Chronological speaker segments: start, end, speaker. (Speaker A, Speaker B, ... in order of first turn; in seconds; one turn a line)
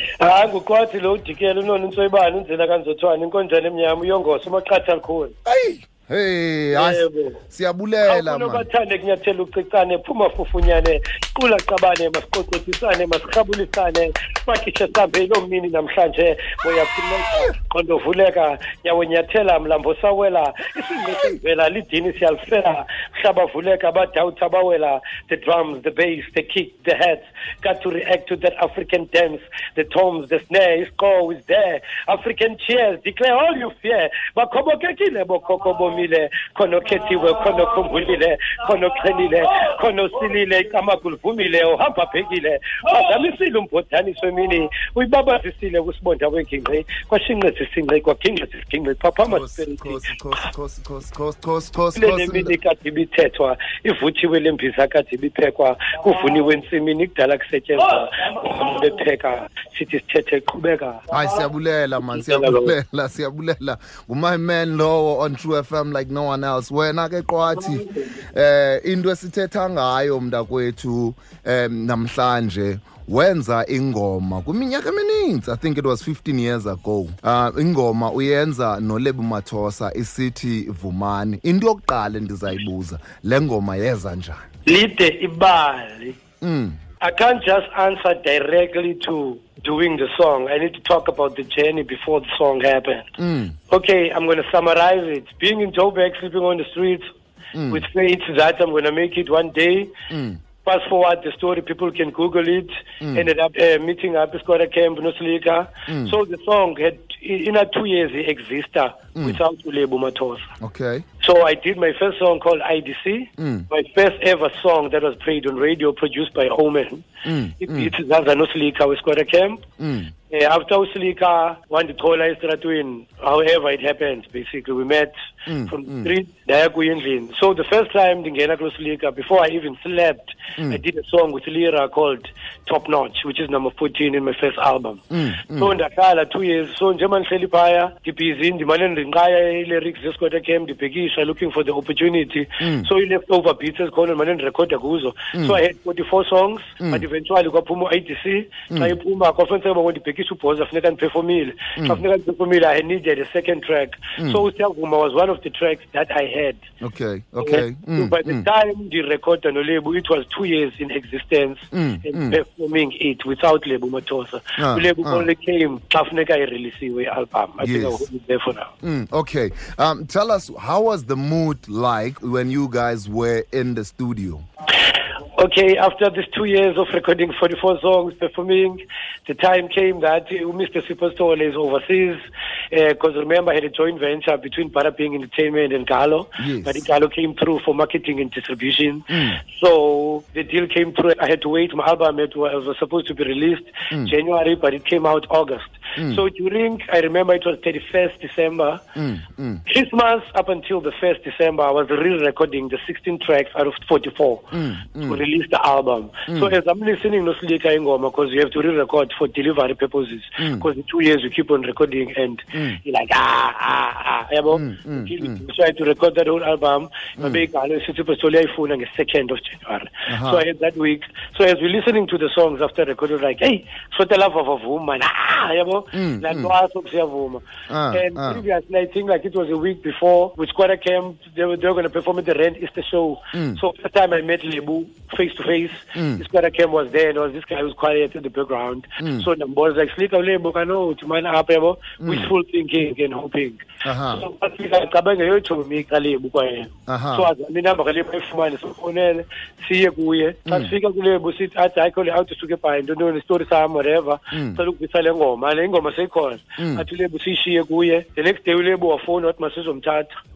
Speaker A: 0.2-5.3
Speaker B: 5.4-8.7
Speaker A: 6.7-7.4
Speaker A: 8.0-50.0
Speaker B: 49.2-52.5
Speaker A: 52.0-61.1
Speaker B: 61.1-84.4
Speaker A: 62.0-62.7
Speaker A: 84.6-86.2
Speaker B: 86.4-86.8
Speaker A: 87.0-93.1
Speaker B: 93.2-93.5
Speaker A: 93.7-97.0
Speaker B: 97.5-97.8
Speaker A: 97.7-99.9
Speaker B: 100.1-100.4
Speaker A: 100.6-110.5
Speaker B: 103.0-103.3
Speaker B: 105.9-106.1
Speaker B: 110.6-111.0
Speaker A: 111.2-117.1
Speaker B: 113.4-113.7
Speaker B: 117.2-117.9
Speaker A: 117.6-119.6
Speaker B: 119.8-120.1
Speaker A: 120.3-125.1
Speaker B: 125.5-126.1
Speaker A: 125.7-156.6
Speaker B: 135.1-135.7
Speaker B: 142.6-142.9
Speaker B: 145.3-145.6
Speaker B: 148.7-148.9
Speaker B: 156.8-158.4
Speaker A: 157.4-168.7
Speaker B: 161.7-162.4
Speaker B: 164.6-165.3
Speaker B: 167.6-168.0
Speaker B: 168.8-174.4
Speaker A: 175.3-198.8
Speaker B: 186.4-186.8
Speaker B: 189.1-189.4
Speaker B: 196.0-196.2
Speaker B: 198.9-199.6
Speaker A: 199.7-204.5
Speaker B: 204.5-205.2
Speaker A: 205.0-260.1
Speaker B: 206.3-206.5
Speaker B: 210.4-210.7
Speaker B: 212.5-212.8
Speaker B: 214.5-215.4
Speaker B: 217.2-217.4
Speaker B: 220.1-220.4
Speaker B: 225.9-226.5
Speaker B: 227.7-228.4
Speaker B: 233.3-233.6
Speaker B: 235.9-236.2
Speaker B: 239.0-239.3
Speaker B: 242.0-242.3
Speaker B: 243.8-244.2
Speaker B: 246.9-247.3
Speaker B: 250.5-250.7
Speaker B: 254.3-254.6
Speaker B: 256.6-256.8